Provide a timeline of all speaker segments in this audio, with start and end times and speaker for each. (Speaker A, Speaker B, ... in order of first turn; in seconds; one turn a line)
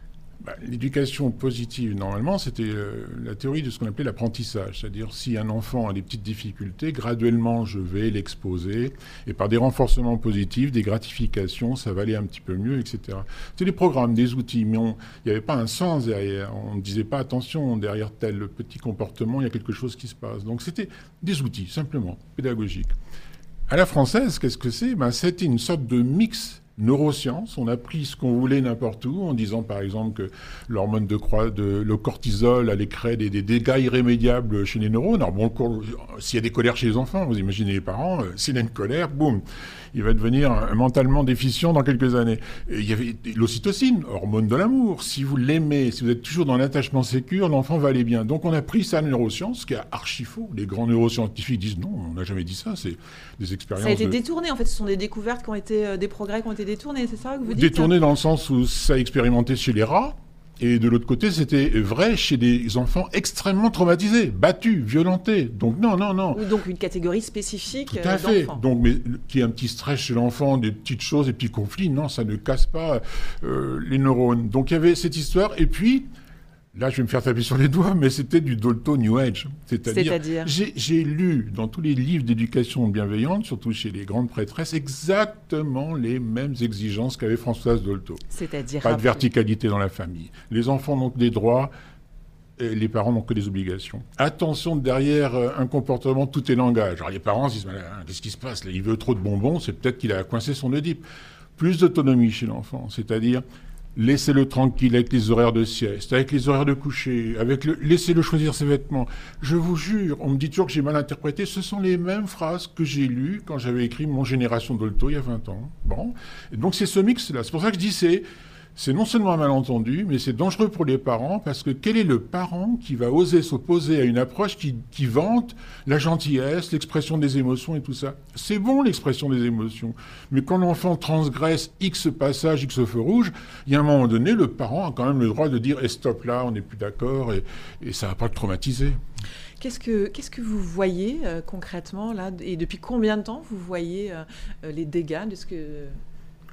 Speaker A: 0.4-22.9
Speaker A: 23.7-39.4
Speaker A: 39.9-54.2
Speaker B: 53.8-57.9
Speaker A: 57.5-66.4
Speaker B: 66.3-68.6
Speaker A: 67.9-76.1
Speaker A: 76.7-88.2
Speaker B: 79.9-80.5
Speaker B: 88.3-89.2
Speaker A: 88.8-91.7
Speaker A: 92.6-101.0
Speaker A: 101.6-103.4
Speaker A: 103.9-118.2
Speaker A: 118.8-139.0
Speaker B: 139.6-146.0